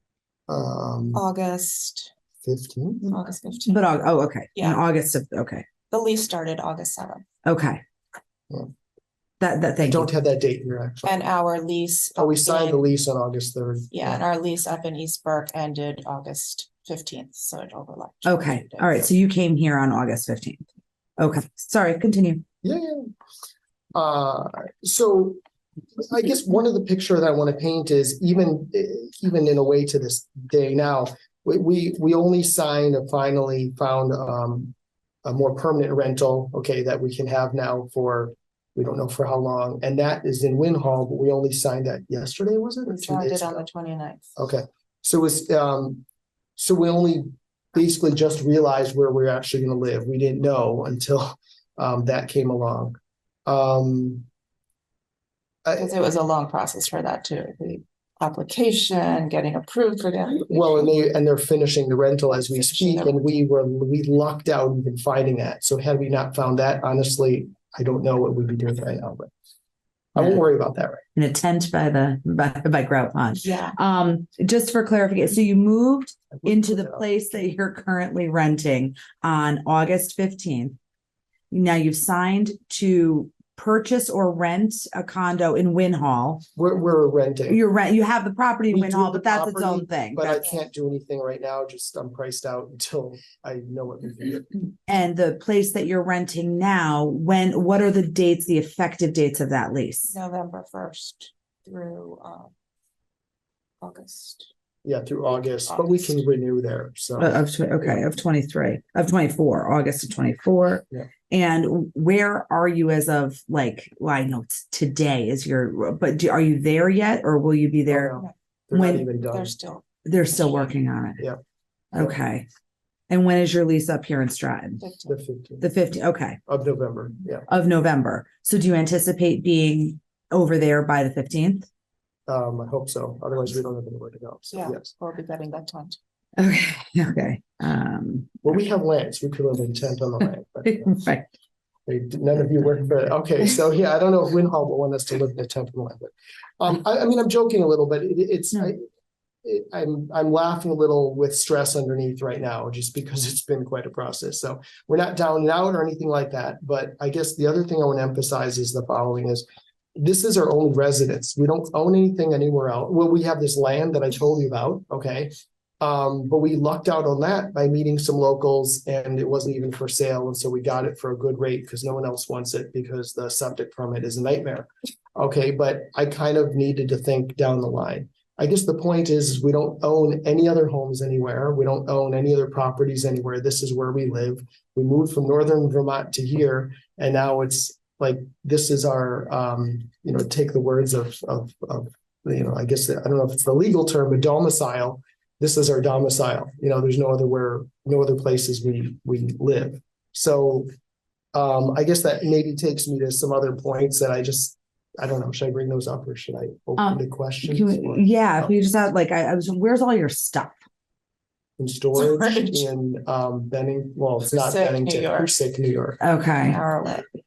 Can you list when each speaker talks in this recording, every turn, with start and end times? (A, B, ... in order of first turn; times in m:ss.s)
0:00.5-0:01.2 A
0:01.1-0:02.1 B
0:02.4-0:03.1 A
0:03.1-0:03.9 B
0:03.7-0:05.7 C
0:04.5-0:04.8 B
0:05.9-0:07.2 B
0:07.4-0:07.8 C
0:09.4-0:10.1 C
0:09.8-0:11.2 A
0:11.0-0:12.8 B
0:12.2-0:14.2 A
0:13.9-0:19.1 B
0:18.2-0:20.6 C
0:21.2-0:22.4 C
0:22.6-0:23.0 A
0:23.9-0:25.4 A
0:26.0-0:34.7 A
0:35.2-0:43.6 A
0:42.9-0:44.3 B
0:44.4-0:46.0 A
0:46.6-0:54.2 A
0:55.6-0:55.9 A
0:55.8-1:01.0 B
1:00.5-1:09.3 A
1:02.3-1:03.3 B
1:10.1-1:11.0 A
1:11.2-1:20.8 C
1:13.3-1:13.8 B
1:16.3-1:17.0 A
1:21.5-1:26.4 C
1:26.6-1:27.6 A
1:27.5-1:30.4 C
1:28.7-1:34.5 A
1:34.9-1:40.1 C
1:40.1-1:42.5 B
1:43.8-1:44.5 B
1:44.8-1:48.0 A
1:45.6-1:46.2 B
1:47.2-1:58.1 C
1:57.9-1:59.5 A
1:58.7-1:59.0 C
1:59.0-2:00.7 B
2:00.0-2:01.2 C
2:01.9-2:02.5 C
2:03.1-2:04.8 C
2:04.8-2:05.2 B
2:05.0-2:05.7 A
2:05.6-2:06.4 C
2:06.4-2:07.5 A
2:07.5-2:11.7 C
2:12.3-2:14.9 A
2:14.5-2:16.0 B
2:16.4-2:18.4 C
2:18.4-2:21.0 A
2:20.7-2:21.2 C
2:21.9-2:28.8 A
2:29.4-3:20.7 A
3:21.3-3:28.5 A
3:26.8-3:30.6 C
3:31.6-3:36.0 A
3:31.9-3:32.7 B
3:34.3-3:35.3 B
3:36.0-3:36.6 C
3:36.4-3:37.1 B